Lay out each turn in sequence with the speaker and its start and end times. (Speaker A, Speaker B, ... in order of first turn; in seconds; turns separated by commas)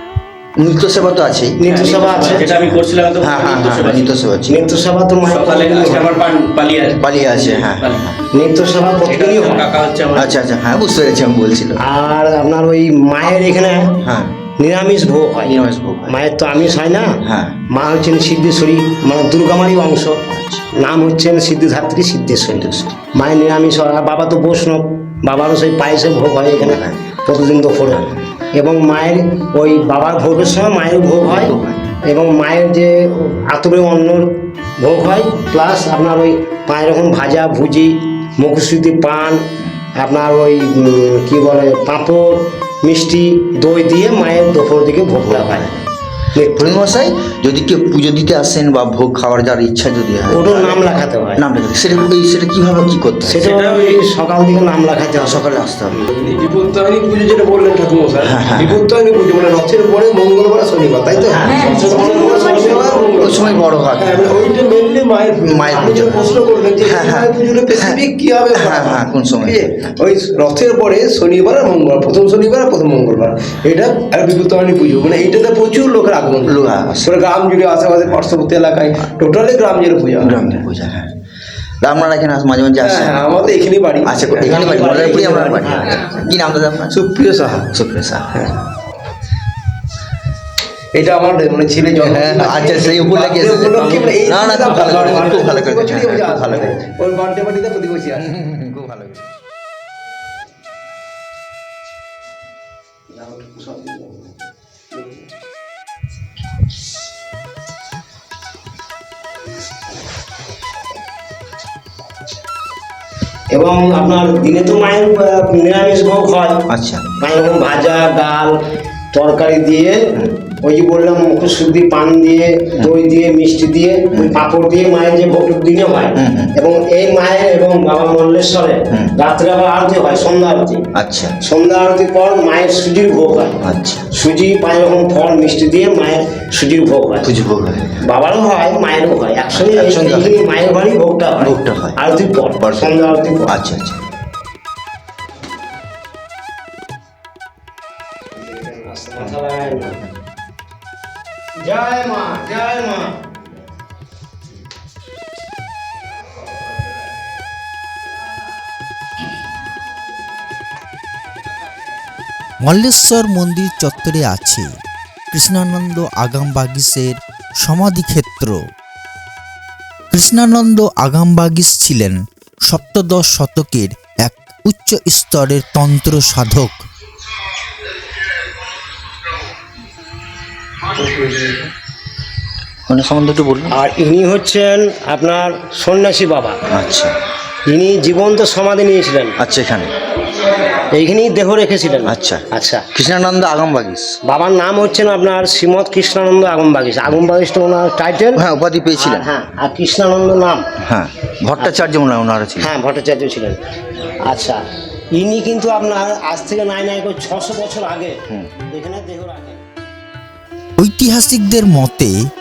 Speaker A: 0.6-1.6, Speaker B: 1.6-2.7, Speaker C: 1.6-4.2, Speaker A: 2.7-4.7, Speaker B: 4.5-6.1, Speaker C: 5.2-8.1, Speaker A: 7.0-8.2, Speaker B: 8.3-9.7, Speaker C: 9.1-10.4, Speaker A: 10.2-11.8, Speaker B: 11.8-14.0, Speaker A: 14.0-14.3, Speaker B: 14.6-17.2, Speaker A: 15.4-16.1, Speaker A: 17.2-17.6, Speaker B: 17.7-20.2, Speaker A: 20.3-20.6, Speaker B: 20.7-39.4, Speaker A: 22.5-23.0, Speaker A: 26.6-27.0, Speaker A: 31.2-31.9, Speaker B: 40.0-45.7, Speaker A: 45.2-45.8, Speaker B: 46.3-46.6, Speaker A: 46.5-53.5, Speaker B: 50.3-51.4, Speaker B: 53.3-56.0, Speaker C: 53.4-54.0, Speaker A: 55.2-56.0, Speaker D: 56.1-80.6, Speaker A: 58.2-58.8, Speaker B: 61.3-63.2, Speaker A: 63.1-64.4, Speaker A: 65.4-68.0, Speaker A: 68.5-69.9, Speaker A: 76.4-77.1, Speaker A: 80.2-81.1, Speaker A: 81.8-83.4, Speaker D: 82.8-86.1, Speaker A: 84.0-87.0, Speaker B: 84.5-86.0, Speaker D: 86.9-87.7, Speaker A: 87.6-88.3, Speaker D: 90.9-98.3, Speaker A: 92.0-96.9, Speaker C: 93.8-95.3, Speaker A: 98.2-99.2, Speaker D: 103.1-104.1, Speaker B: 113.5-116.7, Speaker A: 116.7-117.0, Speaker B: 117.2-118.5, Speaker B: 119.1-120.0, Speaker B: 120.6-130.8, Speaker A: 124.1-124.4, Speaker A: 126.2-126.5, Speaker A: 130.9-131.3, Speaker B: 131.4-133.6, Speaker A: 133.6-134.0, Speaker B: 134.1-137.3, Speaker A: 137.2-138.0, Speaker B: 138.0-143.6, Speaker A: 139.5-140.3, Speaker A: 141.4-142.0, Speaker A: 142.6-143.0, Speaker A: 143.5-144.0, Speaker B: 148.4-150.0, Speaker B: 151.6-153.2, Speaker E: 162.6-164.7, Speaker E: 165.3-168.6, Speaker E: 170.1-176.8, Speaker A: 182.9-183.8, Speaker B: 183.7-186.6, Speaker A: 186.7-187.1, Speaker B: 187.7-189.4, Speaker A: 189.4-189.9, Speaker B: 190.9-192.9, Speaker A: 192.1-194.2, Speaker B: 194.2-198.4, Speaker A: 198.3-199.3, Speaker B: 198.9-200.6, Speaker A: 200.8-202.7, Speaker B: 202.6-203.6, Speaker B: 204.2-209.6, Speaker E: 210.8-212.2